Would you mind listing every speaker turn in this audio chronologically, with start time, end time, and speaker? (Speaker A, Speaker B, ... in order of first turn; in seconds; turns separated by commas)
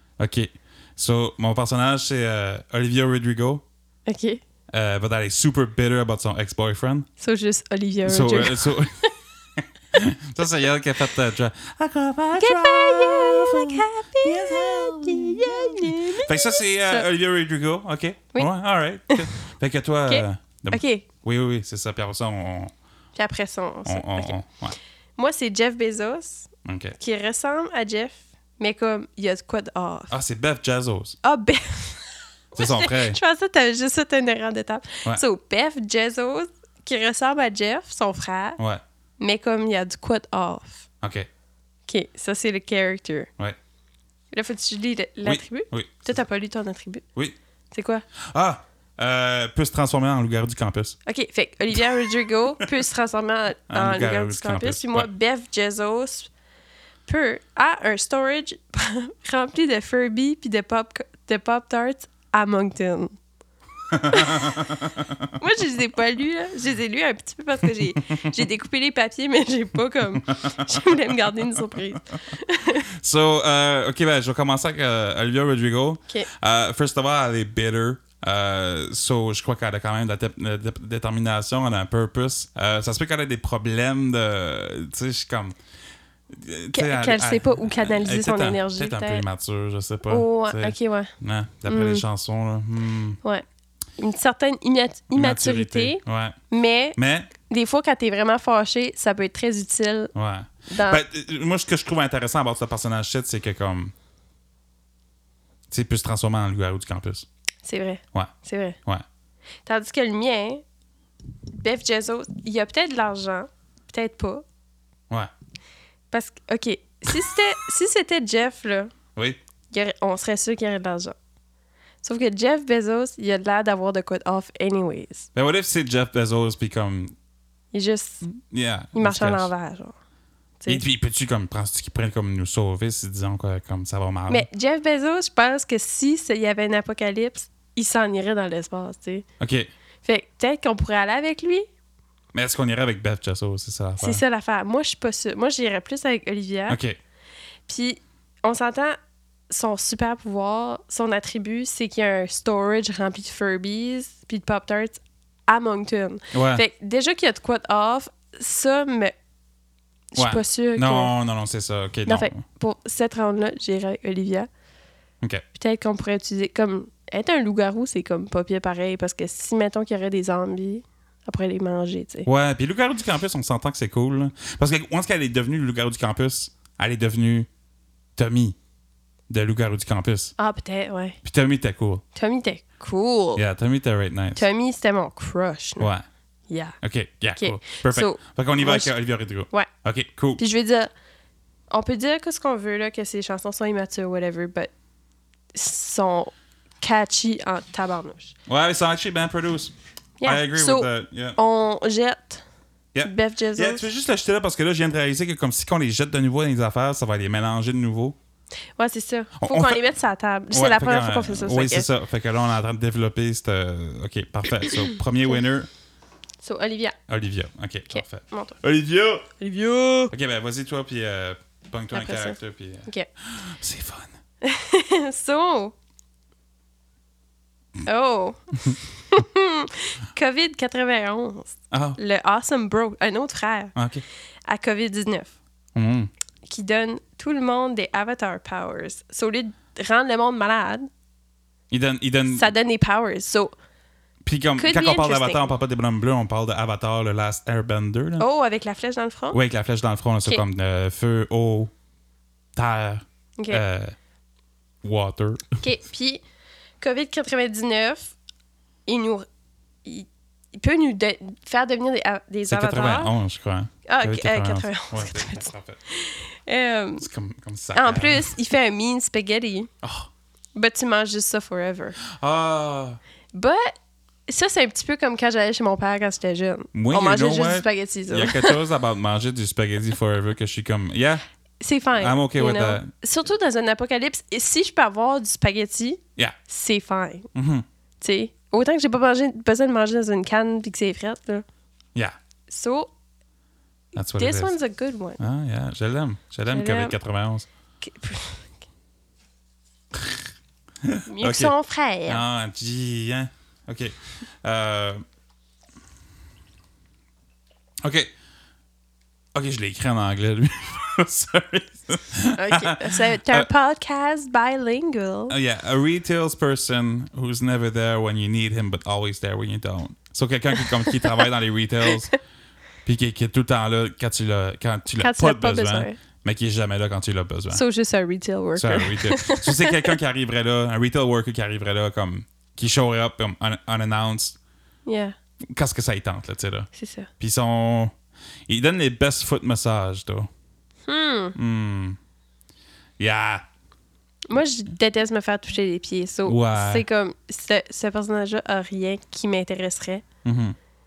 Speaker A: 0.2-3.6, Speaker B: 4.1-4.4, Speaker A: 4.7-7.1, Speaker B: 7.2-8.9, Speaker A: 8.1-22.7, Speaker B: 12.4-17.1, Speaker B: 20.1-21.1, Speaker B: 23.2-24.4, Speaker A: 23.9-24.8, Speaker B: 25.2-26.5, Speaker A: 26.6-27.0, Speaker B: 27.0-30.1, Speaker A: 30.1-31.2, Speaker B: 31.2-38.6, Speaker A: 32.6-33.2, Speaker B: 39.2-40.8, Speaker A: 41.0-41.3, Speaker B: 41.9-43.3, Speaker B: 44.3-47.0, Speaker A: 45.2-46.2, Speaker B: 47.7-48.0, Speaker A: 48.2-51.0, Speaker B: 51.1-56.3, Speaker A: 51.9-52.7, Speaker A: 53.7-55.1, Speaker B: 57.1-63.1, Speaker A: 63.9-65.4, Speaker B: 64.1-64.8, Speaker B: 65.4-72.9, Speaker A: 68.0-68.3, Speaker A: 70.2-70.9, Speaker A: 72.7-85.6, Speaker A: 86.3-93.2, Speaker B: 86.7-89.2, Speaker B: 90.1-91.1, Speaker B: 91.7-92.0, Speaker B: 94.0-100.1, Speaker A: 95.1-96.4, Speaker A: 97.0-97.3, Speaker A: 100.2-103.9, Speaker B: 100.7-101.0, Speaker A: 105.7-107.3, Speaker B: 107.6-108.8, Speaker B: 109.7-110.6, Speaker B: 111.5-114.4, Speaker B: 116.1-118.9, Speaker B: 119.7-121.2, Speaker B: 122.0-125.3, Speaker A: 125.3-127.1, Speaker B: 127.7-128.2, Speaker A: 128.2-129.5, Speaker B: 128.9-129.9, Speaker A: 130.7-134.5, Speaker B: 134.3-139.3, Speaker A: 139.4-139.7, Speaker B: 140.0-141.7, Speaker A: 142.3-144.2, Speaker B: 144.0-146.8, Speaker A: 146.7-147.0, Speaker B: 147.7-149.0, Speaker B: 149.5-159.2, Speaker A: 156.3-156.6, Speaker B: 160.1-161.1, Speaker A: 160.2-162.4, Speaker B: 162.1-164.5, Speaker B: 165.6-172.3, Speaker A: 172.3-177.5, Speaker A: 178.2-178.6, Speaker A: 179.3-180.3, Speaker B: 180.4-181.2, Speaker A: 181.2-182.0, Speaker B: 182.2-183.4, Speaker A: 183.3-184.4, Speaker B: 184.4-185.9, Speaker A: 185.8-186.0, Speaker B: 186.5-186.8, Speaker A: 186.8-190.4, Speaker B: 187.4-188.9, Speaker B: 190.4-190.9, Speaker B: 191.7-194.7, Speaker B: 195.5-198.3, Speaker A: 198.5-199.7, Speaker B: 200.2-202.4, Speaker A: 200.2-201.4, Speaker A: 202.9-208.2, Speaker B: 203.0-203.8, Speaker B: 208.8-211.9, Speaker A: 209.4-209.8, Speaker A: 210.5-215.7, Speaker B: 216.4-217.0, Speaker A: 217.1-219.3, Speaker B: 217.9-218.6, Speaker B: 219.4-220.1, Speaker A: 220.1-224.2, Speaker B: 221.9-223.1, Speaker B: 224.4-225.7, Speaker B: 227.8-233.7, Speaker A: 231.7-232.0, Speaker A: 233.8-234.0, Speaker B: 234.5-235.4, Speaker A: 235.8-236.1, Speaker B: 236.5-240.9, Speaker A: 241.7-242.5, Speaker B: 242.3-243.5, Speaker A: 244.2-248.3, Speaker B: 244.6-245.5, Speaker B: 248.2-249.4, Speaker A: 249.3-251.7, Speaker A: 252.6-254.0, Speaker B: 253.4-253.6, Speaker A: 254.8-255.6, Speaker B: 255.6-256.2, Speaker B: 256.8-258.1, Speaker B: 258.9-259.3, Speaker B: 259.9-263.1, Speaker A: 262.5-265.8, Speaker B: 263.9-267.1, Speaker A: 267.0-268.3, Speaker B: 267.7-269.7, Speaker A: 269.8-270.1, Speaker B: 270.6-272.0, Speaker A: 272.0-273.0, Speaker B: 273.3-273.8, Speaker B: 274.3-278.6, Speaker A: 276.7-281.2, Speaker B: 281.6-287.3, Speaker A: 282.0-282.9, Speaker A: 287.3-287.7, Speaker B: 288.0-291.4, Speaker B: 292.5-292.9, Speaker A: 293.9-294.5, Speaker B: 294.2-295.2, Speaker A: 295.2-297.5, Speaker B: 296.5-297.0, Speaker B: 297.8-298.5, Speaker A: 300.8-301.6, Speaker B: 301.1-302.2, Speaker A: 302.1-305.0, Speaker A: 307.8-308.1, Speaker A: 309.4-313.5, Speaker B: 312.4-315.4, Speaker A: 315.3-322.1, Speaker B: 320.8-321.1, Speaker B: 321.9-322.1, Speaker A: 322.9-327.6, Speaker B: 325.0-326.0, Speaker B: 327.5-330.0, Speaker A: 328.6-334.4, Speaker B: 334.9-335.2, Speaker A: 335.5-336.7, Speaker B: 336.7-337.1, Speaker A: 337.2-337.9, Speaker A: 338.5-340.3, Speaker B: 340.9-341.4, Speaker A: 341.4-342.0, Speaker A: 343.0-343.4, Speaker B: 344.3-350.0, Speaker A: 346.2-346.8, Speaker A: 350.2-350.6